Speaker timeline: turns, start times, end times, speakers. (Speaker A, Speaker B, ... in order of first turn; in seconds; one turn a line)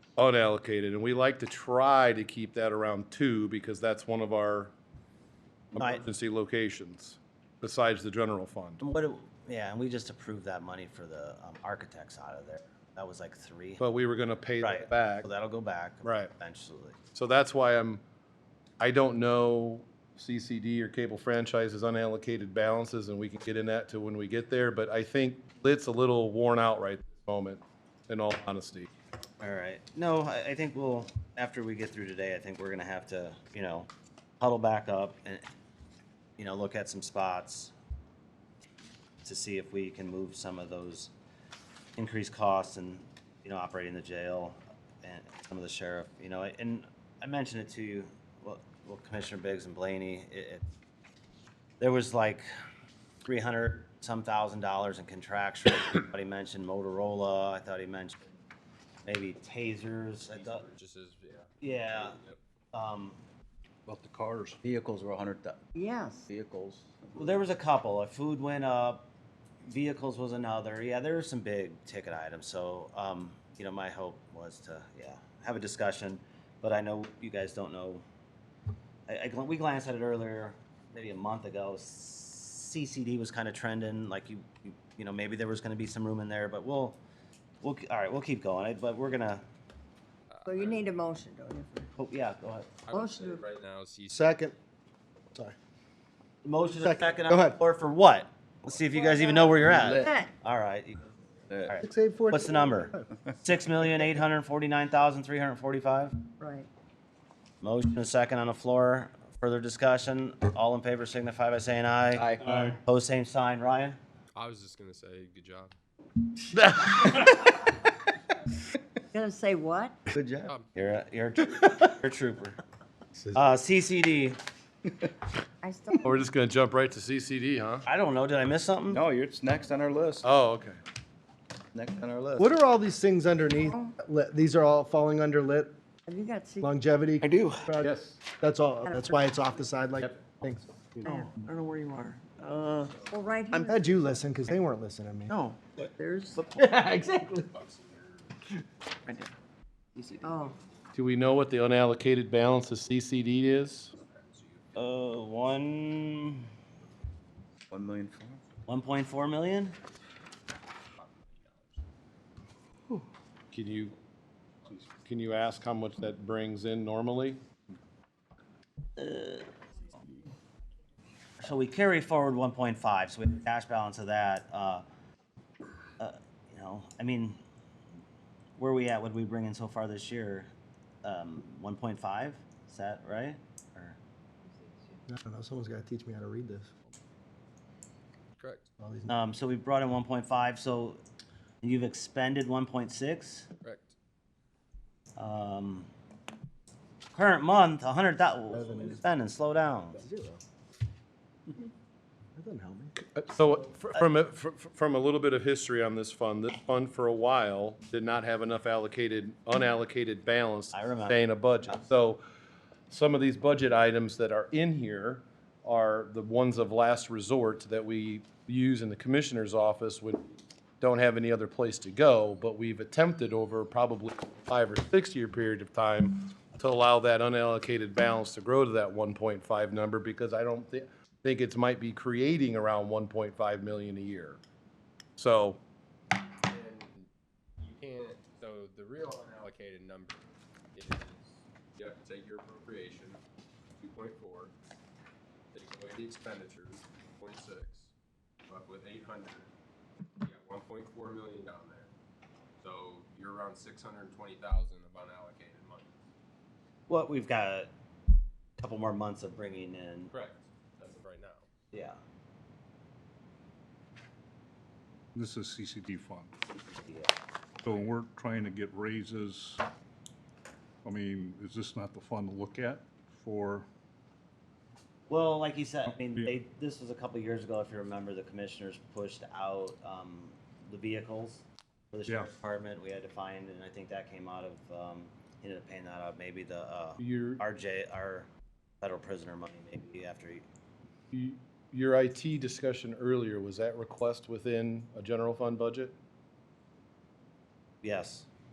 Speaker A: 0.2-4.7
Speaker A: 5.7-8.8
Speaker B: 5.8-6.0
Speaker B: 8.8-13.8
Speaker A: 13.8-15.3
Speaker B: 14.6-17.0
Speaker A: 16.0-16.3
Speaker A: 17.1-18.0
Speaker A: 18.8-28.9
Speaker B: 29.4-33.9
Speaker B: 34.4-35.4
Speaker B: 36.4-37.7
Speaker B: 39.2-41.1
Speaker B: 42.0-50.6
Speaker B: 51.8-52.5
Speaker B: 53.2-58.2
Speaker B: 59.0-60.6
Speaker C: 60.3-62.4
Speaker B: 61.6-62.2
Speaker B: 62.7-63.2
Speaker D: 63.9-64.6
Speaker E: 64.5-65.6
Speaker F: 65.8-66.3
Speaker E: 66.3-67.4
Speaker B: 67.2-69.0
Speaker B: 69.7-78.0
Speaker B: 79.1-87.0
Speaker B: 87.6-89.5
Speaker C: 90.3-90.8
Speaker F: 90.5-91.9
Speaker B: 92.0-92.8
Speaker C: 92.8-94.4
Speaker F: 92.9-93.4
Speaker G: 94.1-94.5
Speaker B: 96.4-101.0
Speaker G: 96.7-97.6
Speaker F: 98.9-100.3
Speaker E: 99.6-100.2
Speaker E: 101.5-101.8
Speaker B: 101.7-106.3
Speaker G: 101.8-103.0
Speaker F: 106.4-106.7
Speaker B: 107.6-114.0
Speaker E: 112.1-112.7
Speaker C: 114.3-115.7
Speaker F: 119.1-120.0
Speaker E: 120.1-120.6
Speaker B: 120.7-122.6
Speaker B: 123.3-124.4
Speaker F: 125.6-126.2
Speaker A: 125.9-127.9
Speaker B: 127.9-129.0
Speaker E: 128.9-130.3
Speaker A: 130.2-130.8
Speaker E: 131.7-132.6
Speaker G: 132.4-135.7
Speaker F: 133.7-133.9
Speaker F: 136.1-136.7
Speaker G: 136.6-140.8
Speaker A: 137.8-138.2
Speaker F: 138.8-139.4
Speaker F: 141.1-142.2
Speaker H: 141.5-142.9
Speaker F: 143.1-144.2
Speaker G: 143.6-145.4
Speaker H: 145.3-145.9
Speaker F: 146.0-146.4
Speaker C: 147.5-148.3
Speaker F: 150.2-150.6
Speaker A: 150.9-153.9
Speaker C: 154.0-154.8
Speaker B: 154.8-156.5
Speaker E: 157.7-158.4
Speaker B: 158.7-159.8
Speaker C: 161.0-161.8
Speaker A: 163.5-163.9
Speaker A: 165.0-167.4
Speaker B: 169.0-169.5
Speaker B: 171.4-174.8
Speaker B: 176.0-177.4
Speaker B: 178.6-180.5
Speaker B: 181.0-184.0
Speaker G: 185.1-186.7
Speaker C: 188.4-188.7
Speaker G: 188.8-189.1
Speaker B: 189.1-191.0
Speaker B: 191.6-193.5
Speaker C: 193.6-193.9
Speaker B: 195.2-195.9
Speaker B: 197.1-200.0
Speaker G: 198.5-199.0
Speaker G: 199.9-200.4
Speaker G: 202.4-203.0
Speaker A: 203.0-212.2
Speaker B: 210.7-211.8
Speaker A: 212.9-220.2
Speaker A: 220.8-234.4
Speaker A: 235.2-235.6
Speaker C: 236.5-237.1
Speaker C: 237.6-243.2
Speaker C: 243.8-244.5
Speaker C: 245.5-247.9
Speaker C: 248.5-249.5
Speaker C: 250.2-251.9
Speaker C: 252.6-256.0
Speaker B: 256.9-257.7
Speaker B: 258.6-260.1
Speaker C: 260.1-261.4
Speaker B: 261.7-262.0
Speaker D: 265.1-266.4
Speaker B: 266.6-267.1
Speaker D: 267.6-269.6
Speaker D: 270.8-273.7
Speaker B: 275.1-288.3
Speaker D: 275.9-276.3
Speaker A: 287.0-287.4
Speaker B: 288.8-290.4
Speaker A: 291.1-295.9
Speaker B: 297.8-298.3